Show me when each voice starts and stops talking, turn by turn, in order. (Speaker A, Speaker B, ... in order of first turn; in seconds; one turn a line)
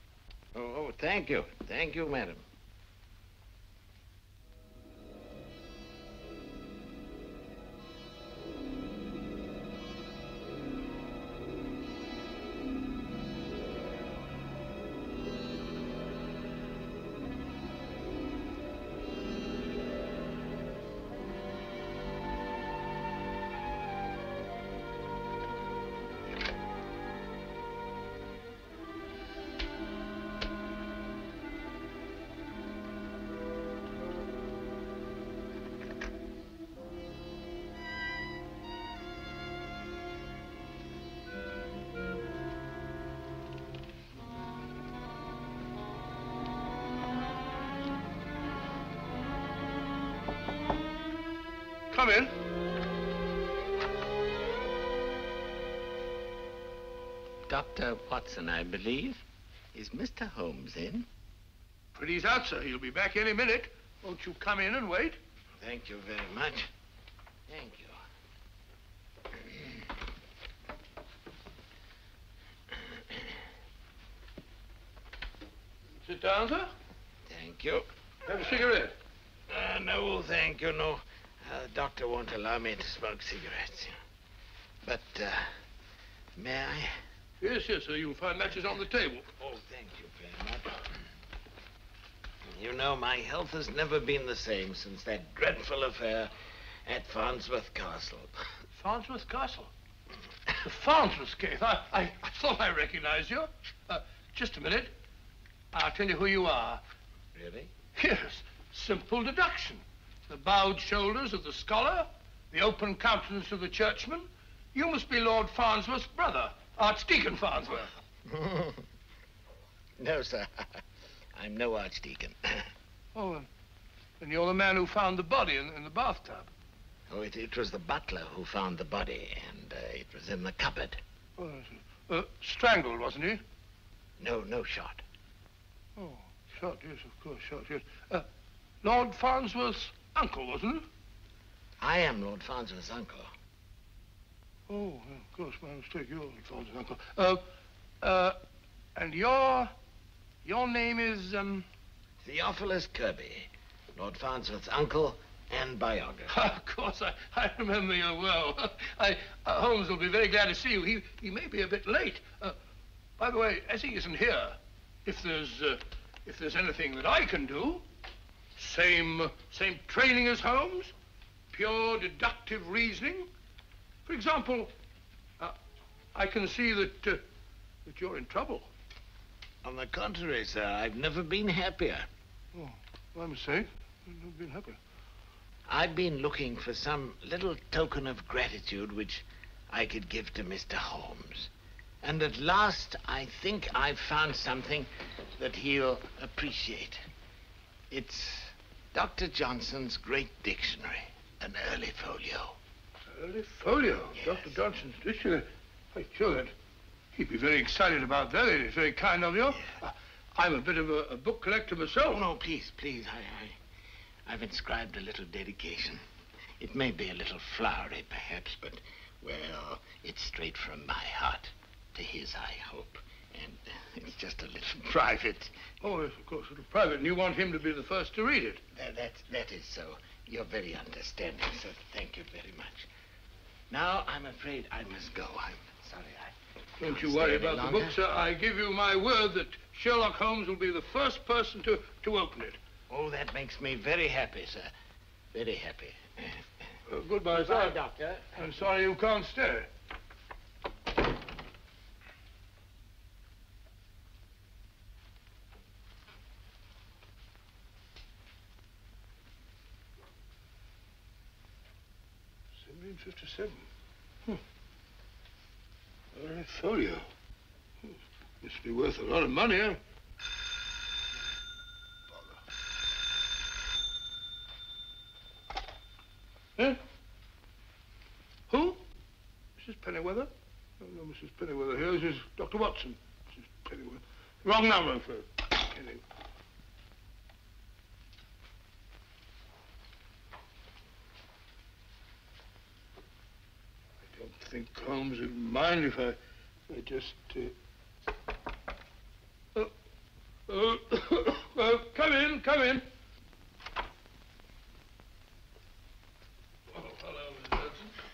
Speaker A: 0.5-2.4
Speaker B: 51.9-52.3
Speaker A: 57.5-59.2
Speaker A: 59.7-61.1
Speaker B: 61.9-65.2
Speaker A: 65.6-66.7
Speaker A: 67.5-68.0
Speaker B: 76.0-76.7
Speaker A: 77.3-77.9
Speaker B: 78.3-79.0
Speaker A: 79.5-83.9
Speaker A: 84.8-85.5
Speaker A: 86.4-87.0
Speaker B: 87.4-89.3
Speaker A: 89.4-90.8
Speaker A: 92.5-96.3
Speaker A: 96.9-98.3
Speaker B: 98.8-99.7
Speaker B: 100.6-104.9
Speaker B: 105.7-106.8
Speaker A: 107.3-107.7
Speaker B: 108.0-117.9
Speaker A: 118.3-118.8
Speaker A: 120.0-120.8
Speaker A: 121.3-122.7
Speaker B: 123.2-123.5
Speaker B: 124.2-126.5
Speaker A: 127.1-131.0
Speaker B: 131.4-133.4
Speaker A: 134.2-135.0
Speaker B: 136.0-138.3
Speaker B: 138.8-140.9
Speaker A: 141.8-143.3
Speaker B: 144.7-147.4
Speaker B: 148.0-148.4
Speaker B: 148.9-149.7
Speaker B: 150.4-151.7
Speaker A: 152.2-156.4
Speaker B: 156.3-162.6
Speaker B: 163.2-167.8
Speaker B: 168.6-170.9
Speaker B: 171.5-173.3
Speaker B: 174.1-174.7
Speaker B: 176.1-177.2
Speaker B: 177.8-178.7
Speaker A: 179.6-182.1
Speaker B: 182.5-184.8
Speaker A: 185.7-191.5
Speaker A: 192.0-197.0
Speaker A: 197.9-202.6
Speaker B: 203.1-206.5
Speaker A: 204.1-204.5
Speaker B: 207.2-212.2
Speaker A: 212.0-213.6
Speaker A: 214.3-216.0
Speaker A: 216.6-225.6
Speaker B: 225.8-228.6
Speaker A: 228.7-232.9
Speaker A: 233.7-238.0
Speaker B: 236.8-242.6
Speaker A: 242.9-244.7
Speaker A: 245.3-246.4
Speaker B: 246.9-247.8
Speaker A: 247.3-248.5
Speaker B: 248.3-249.7
Speaker B: 262.6-263.7
Speaker B: 266.1-267.1
Speaker B: 267.8-269.8
Speaker B: 278.5-278.8
Speaker B: 279.6-286.0
Speaker B: 294.1-296.2
Speaker B: 296.7-297.5
Speaker B: 300.5-302.9
Speaker B: 306.7-307.9